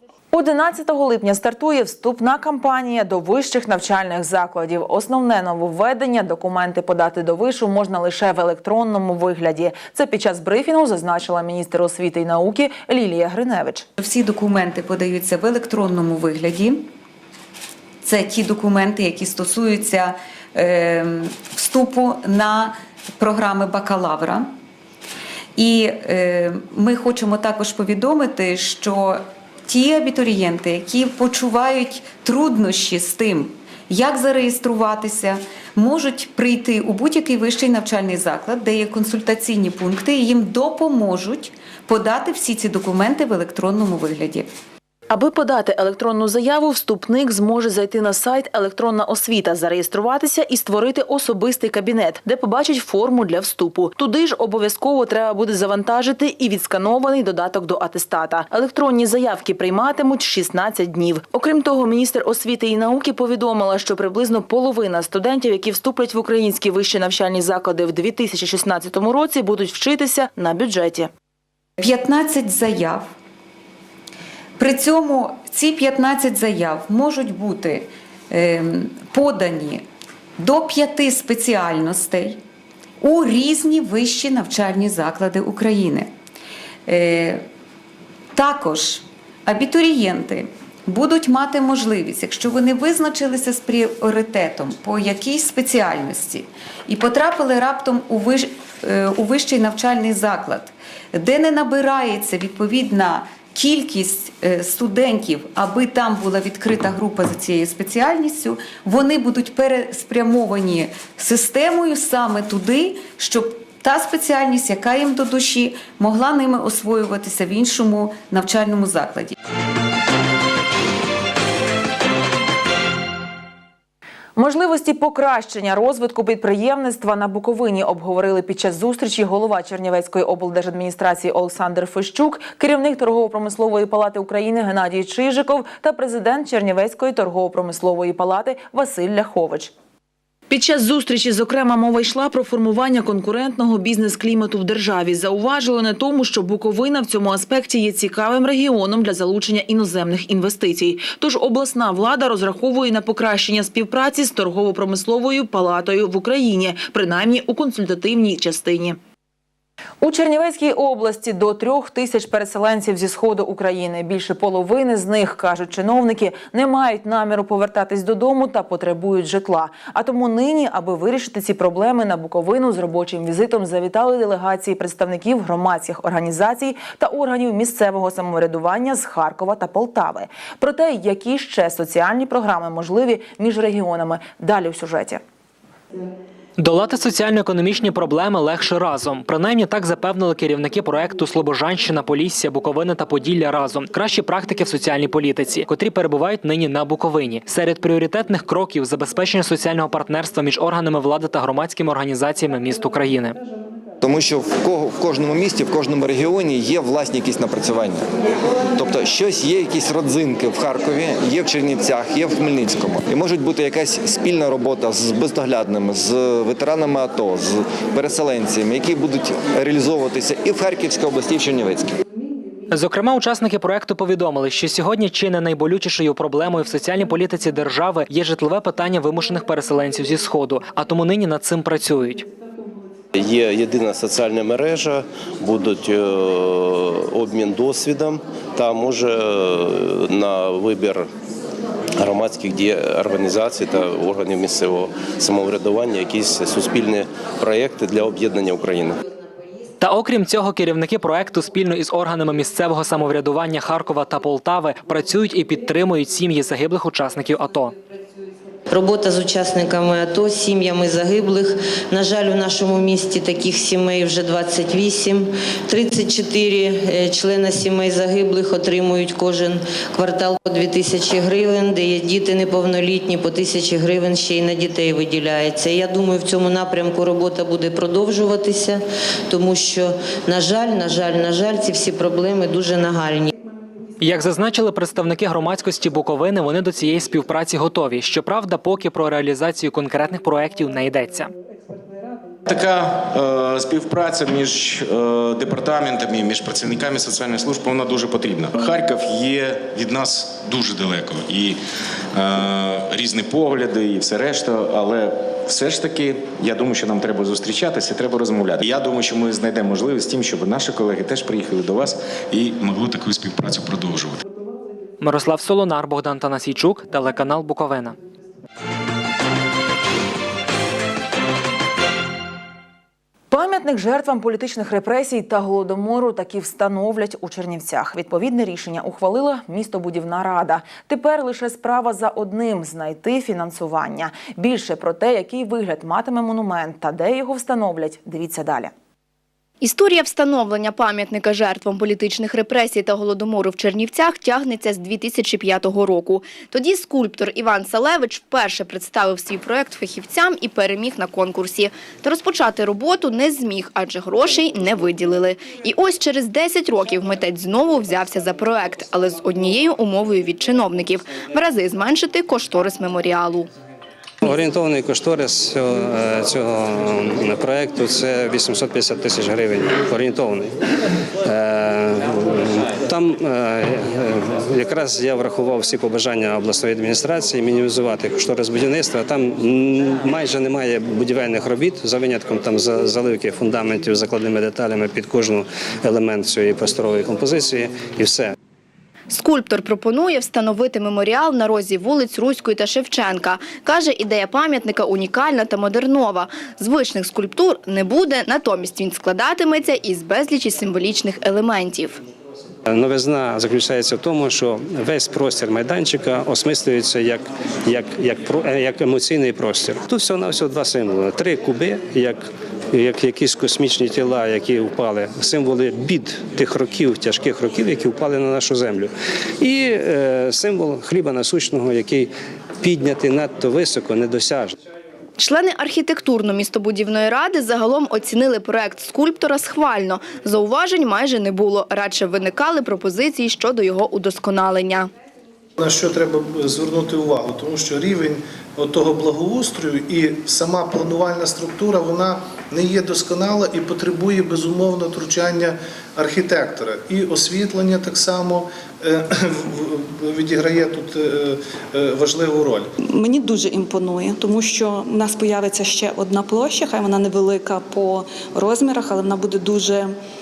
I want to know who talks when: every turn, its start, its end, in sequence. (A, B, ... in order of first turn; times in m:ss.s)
0:00.3-0:13.9 A
0:14.0-0:16.9 B
0:18.0-0:24.5 B
0:25.6-0:44.5 B
0:45.1-1:11.1 A
1:11.8-1:13.1 B
1:14.6-1:19.8 B
1:20.4-1:22.4 B
1:23.0-1:26.1 B
1:26.9-1:27.4 B
1:28.3-1:59.4 B
2:04.4-2:19.7 A
2:20.5-2:39.0 A
2:40.0-3:05.2 A
3:06.6-3:23.4 C
3:24.0-3:28.0 D
3:28.8-3:41.9 D
3:42.7-3:52.3 C
3:53.2-4:01.1 E
4:02.0-4:09.0 E
4:09.8-4:17.8 C
4:18.7-4:43.3 F
4:44.0-4:51.3 C
4:52.5-5:01.6 G
5:02.2-5:14.2 G
5:15.0-5:18.0 C
5:23.3-5:38.7 A
5:39.6-6:03.5 H
6:04.2-6:10.5 I
6:11.2-6:28.3 I
6:29.1-6:42.0 H
6:42.7-7:04.5 I
7:05.2-7:14.9 H
7:15.6-7:29.0 J
7:20.4-7:22.0 K
7:23.2-7:23.5 K
7:24.3-7:24.6 K
7:30.1-7:32.6 J
7:33.0-7:39.9 K